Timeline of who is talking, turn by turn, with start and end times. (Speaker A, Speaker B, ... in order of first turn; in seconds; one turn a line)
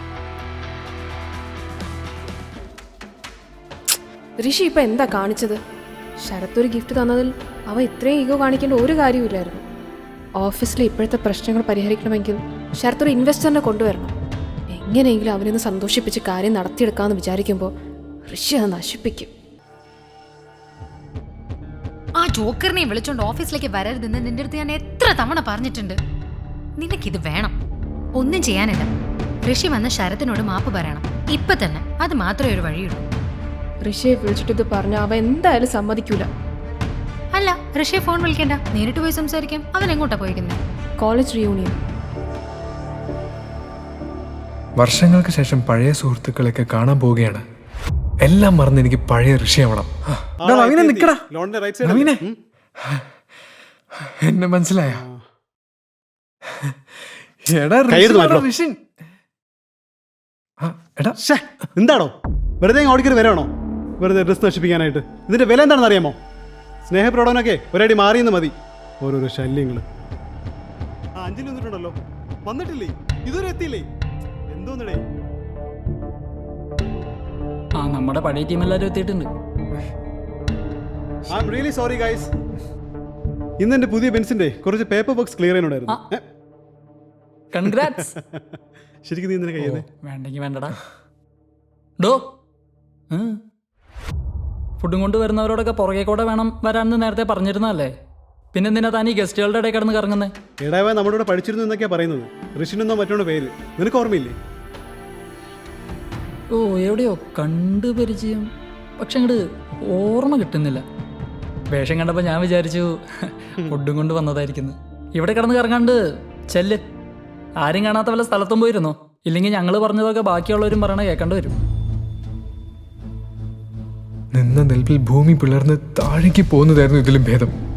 Speaker A: 4.4-5.6
Speaker A: 6.2-9.6
Speaker A: 10.4-14.1
Speaker A: 14.7-17.7
Speaker A: 18.3-19.3
Speaker B: 22.2-26.0
Speaker B: 26.8-27.6
Speaker B: 28.1-28.9
Speaker B: 29.4-33.0
Speaker A: 33.8-36.3
Speaker B: 37.3-40.6
Speaker A: 41.0-41.8
Speaker C: 44.8-47.4
Speaker C: 48.2-51.2
Speaker D: 50.4-52.4
Speaker C: 51.8-52.2
Speaker C: 52.8-53.0
Speaker C: 54.0-55.0
Speaker D: 54.9-55.2
Speaker C: 56.5-58.8
Speaker D: 57.9-58.5
Speaker C: 60.6-61.2
Speaker D: 61.2-63.5
Speaker D: 64.0-66.2
Speaker D: 66.9-69.8
Speaker D: 71.2-73.9
Speaker D: 74.5-75.0
Speaker E: 77.8-79.3
Speaker D: 81.3-82.3
Speaker D: 83.6-86.2
Speaker E: 87.5-88.1
Speaker D: 87.9-88.4
Speaker D: 89.0-89.8
Speaker E: 89.6-90.8
Speaker E: 93.1-93.4
Speaker E: 94.8-97.9
Speaker E: 98.5-100.3
Speaker D: 100.6-104.3
Speaker E: 106.5-108.5
Speaker E: 109.0-110.8
Speaker E: 111.7-116.0
Speaker E: 116.5-116.8
Speaker E: 117.6-121.5
Speaker C: 124.3-127.5